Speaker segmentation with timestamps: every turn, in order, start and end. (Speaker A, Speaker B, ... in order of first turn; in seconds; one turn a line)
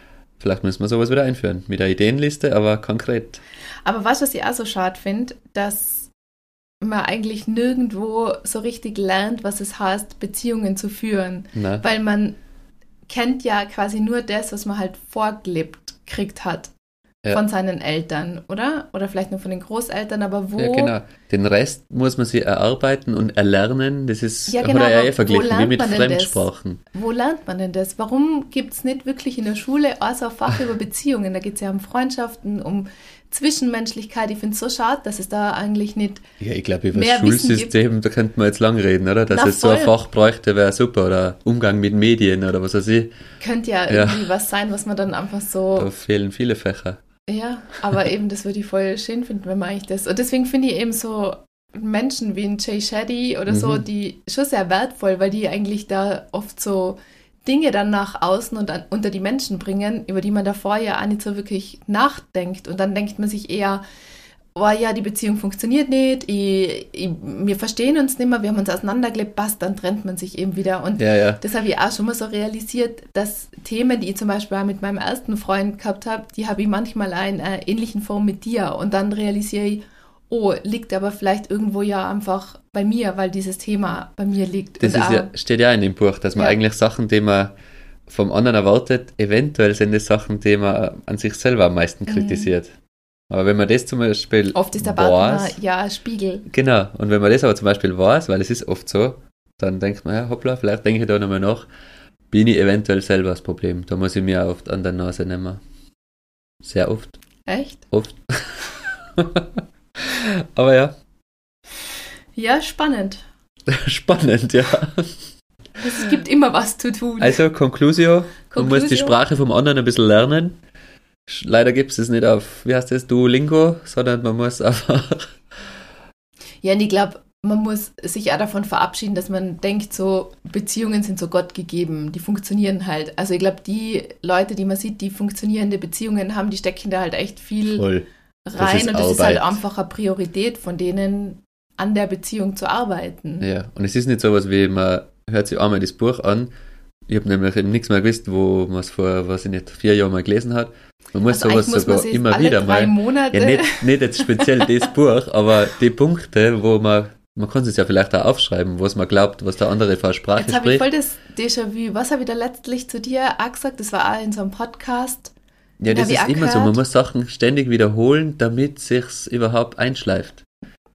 Speaker A: 0.4-3.4
Speaker B: 3.8-6.1
Speaker B: 6.8-12.4
Speaker A: 11.5-11.8
Speaker B: 13.1-16.7
Speaker B: 17.3-20.9
Speaker A: 20.6-26.8
Speaker B: 24.5-36.2
Speaker A: 36.4-43.1
Speaker B: 36.9-37.7
Speaker B: 39.3-39.9
Speaker B: 43.4-45.9
Speaker A: 43.9-44.2
Speaker A: 45.7-47.0
Speaker B: 47.3-63.8
Speaker A: 53.5-53.8
Speaker B: 64.5-85.3
Speaker A: 71.0-71.4
Speaker A: 84.8-87.5
Speaker A: 88.1-92.8
Speaker B: 92.1-92.5
Speaker A: 93.3-95.6
Speaker B: 94.5-96.5
Speaker A: 96.5-101.7
Speaker A: 102.3-105.6
Speaker A: 106.6-107.2
Speaker B: 107.5-107.8
Speaker A: 107.9-110.9
Speaker B: 112.3-113.2
Speaker A: 113.7-115.2
Speaker B: 115.8-117.4
Speaker A: 117.2-120.6
Speaker B: 118.5-119.2
Speaker A: 121.3-125.3
Speaker B: 126.6-137.9
Speaker A: 137.7-139.6
Speaker B: 138.4-143.4
Speaker A: 143.4-146.5
Speaker A: 147.1-160.8
Speaker B: 151.3-154.9
Speaker B: 160.4-165.3
Speaker A: 165.8-170.4
Speaker B: 165.9-166.8